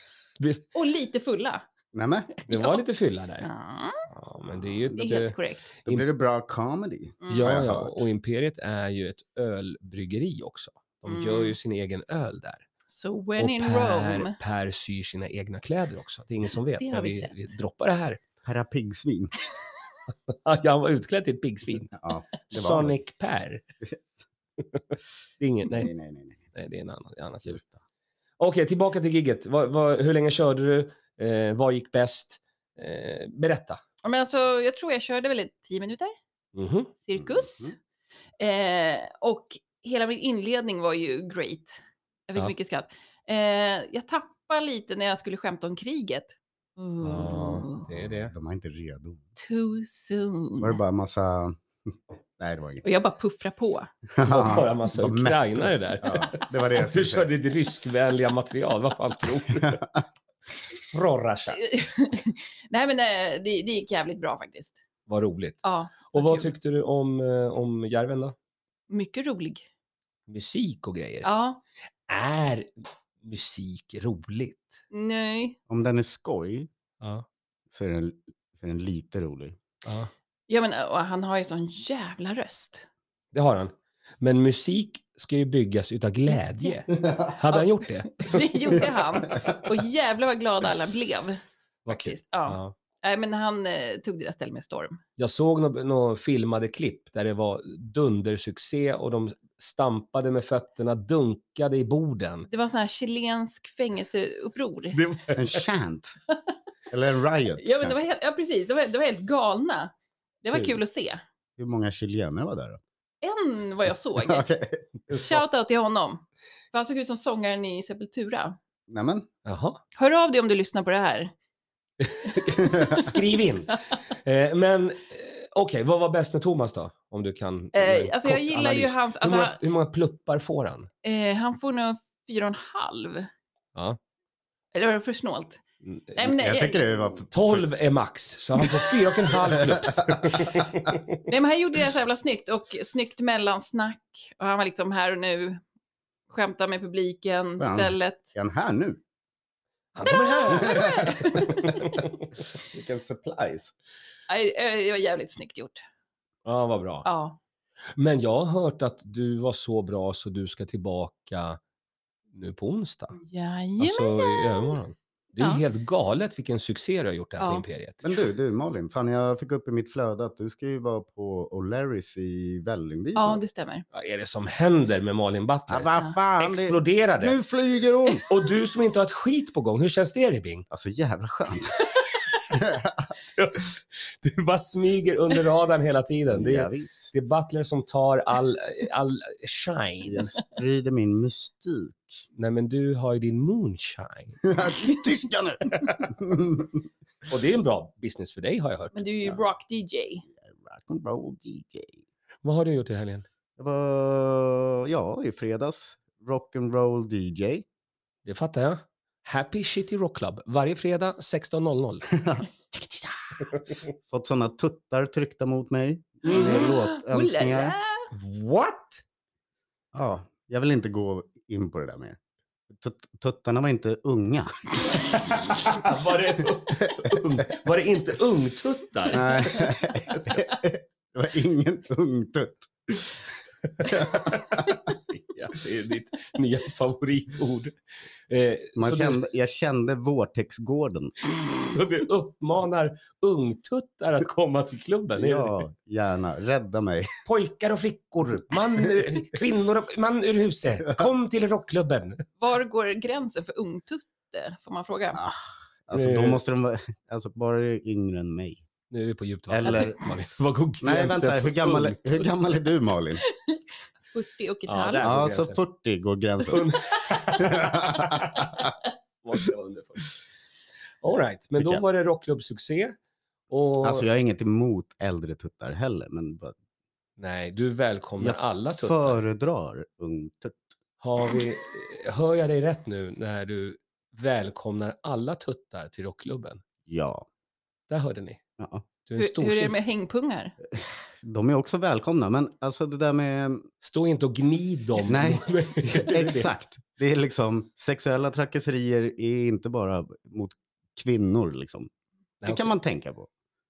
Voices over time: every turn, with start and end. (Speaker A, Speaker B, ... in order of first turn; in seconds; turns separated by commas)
Speaker A: 0.4-0.7, Speaker B: 0.7-1.6, Speaker C: 1.9-2.3, Speaker B: 2.3-2.8, Speaker A: 2.5-3.5, Speaker B: 3.4-4.1, Speaker A: 4.1-6.0, Speaker B: 5.0-5.7, Speaker C: 5.8-8.1, Speaker B: 7.2-7.5, Speaker A: 7.3-12.6, Speaker B: 11.0-11.6, Speaker B: 12.9-14.3, Speaker A: 13.4-18.2, Speaker B: 16.8-17.4, Speaker C: 18.4-19.3, Speaker A: 20.3-22.0, Speaker C: 22.0-23.0, Speaker A: 22.5-23.6, Speaker C: 23.8-24.3, Speaker A: 25.4-25.9, Speaker C: 25.8-26.4, Speaker A: 26.5-27.6, Speaker A: 28.4-33.8, Speaker B: 34.0-36.1, Speaker A: 36.5-36.9, Speaker B: 37.0-37.7, Speaker C: 37.2-37.7, Speaker B: 38.4-47.9, Speaker A: 47.0-48.3, Speaker C: 48.2-49.2, Speaker B: 49.4-50.8, Speaker C: 50.6-52.9, Speaker B: 52.8-53.9, Speaker C: 54.1-55.4, Speaker A: 54.2-59.8, Speaker C: 56.0-57.3, Speaker C: 59.6-59.8, Speaker A: 60.9-61.6, Speaker B: 61.6-64.8, Speaker A: 65.1-68.3, Speaker B: 65.6-66.5, Speaker B: 68.9-69.6, Speaker A: 70.3-71.3, Speaker B: 71.2-71.6, Speaker A: 72.1-74.8, Speaker B: 74.9-75.6, Speaker C: 75.7-76.7, Speaker A: 77.0-77.2, Speaker C: 77.7-79.6, Speaker A: 79.8-80.1, Speaker B: 80.5-82.8, Speaker A: 83.3-88.9, Speaker B: 88.1-95.0, Speaker C: 89.3-89.5, Speaker A: 91.8-92.7, Speaker A: 95.2-102.5, Speaker B: 102.5-105.0, Speaker A: 104.9-105.6, Speaker C: 105.3-106.2, Speaker C: 106.9-108.0, Speaker B: 107.6-111.2, Speaker A: 110.5-110.8, Speaker C: 111.6-112.8, Speaker B: 113.2-114.5, Speaker C: 114.2-115.2, Speaker B: 115.1-118.6, Speaker C: 118.9-119.3, Speaker A: 119.4-119.8, Speaker B: 120.0-121.3, Speaker A: 122.0-130.9, Speaker B: 122.3-123.0, Speaker C: 122.6-122.9, Speaker B: 127.7-129.6, Speaker B: 131.0-133.3, Speaker B: 134.7-135.6, Speaker A: 135.8-136.3, Speaker B: 136.2-136.8, Speaker C: 136.2-137.6, Speaker A: 137.3-141.2, Speaker C: 139.5-140.9, Speaker B: 141.3-145.6, Speaker B: 146.3-148.3, Speaker C: 147.6-149.0, Speaker A: 149.9-152.2, Speaker B: 150.0-151.9, Speaker C: 150.5-152.0, Speaker C: 152.7-153.7, Speaker B: 154.3-155.8, Speaker A: 156.4-157.1, Speaker B: 157.1-157.4, Speaker A: 158.0-161.6, Speaker A: 162.3-163.2, Speaker B: 163.2-164.8, Speaker A: 163.8-168.3, Speaker B: 165.4-165.6, Speaker B: 167.4-167.6, Speaker C: 168.0-173.4, Speaker B: 173.1-173.8, Speaker A: 173.9-177.3, Speaker C: 175.7-178.2, Speaker A: 178.2-180.7, Speaker C: 180.7-181.8, Speaker C: 182.5-183.1, Speaker A: 183.2-190.3, Speaker C: 186.3-187.1, Speaker C: 190.1-192.3, Speaker A: 192.3-194.4, Speaker C: 194.4-196.8, Speaker A: 197.3-199.0, Speaker B: 198.9-200.2, Speaker C: 200.3-202.0, Speaker A: 202.4-203.3, Speaker C: 203.6-207.6, Speaker A: 208.2-212.1, Speaker C: 212.2-213.4, Speaker C: 214.1-217.8, Speaker B: 216.2-218.1, Speaker A: 216.3-216.7, Speaker A: 218.1-219.0, Speaker C: 219.9-222.2, Speaker C: 222.7-225.8, Speaker A: 225.2-229.5, Speaker C: 226.8-227.2, Speaker C: 229.1-233.2, Speaker A: 233.8-237.8, Speaker C: 233.8-234.9, Speaker A: 238.3-239.2, Speaker C: 238.8-241.2, Speaker A: 241.2-245.6, Speaker C: 245.2-247.1, Speaker A: 247.2-252.2, Speaker B: 252.4-255.2, Speaker C: 255.1-258.6, Speaker A: 255.9-256.4, Speaker A: 258.9-262.3, Speaker C: 259.5-260.0, Speaker C: 260.8-263.2, Speaker B: 263.2-265.2, Speaker A: 264.7-265.6, Speaker C: 265.0-268.7, Speaker A: 266.4-268.7, Speaker B: 267.1-267.4, Speaker A: 269.2-270.1, Speaker A: 271.0-272.9, Speaker C: 271.6-271.8, Speaker A: 273.5-274.0, Speaker C: 273.8-276.5, Speaker A: 277.2-279.2, Speaker C: 278.2-280.8, Speaker A: 281.0-286.6, Speaker C: 286.9-287.2, Speaker A: 287.9-288.4, Speaker C: 288.6-288.9, Speaker A: 289.1-289.8, Speaker B: 289.2-290.5, Speaker C: 290.7-293.7, Speaker A: 293.8-296.5, Speaker C: 295.0-301.9, Speaker A: 302.4-302.7, Speaker C: 302.4-303.3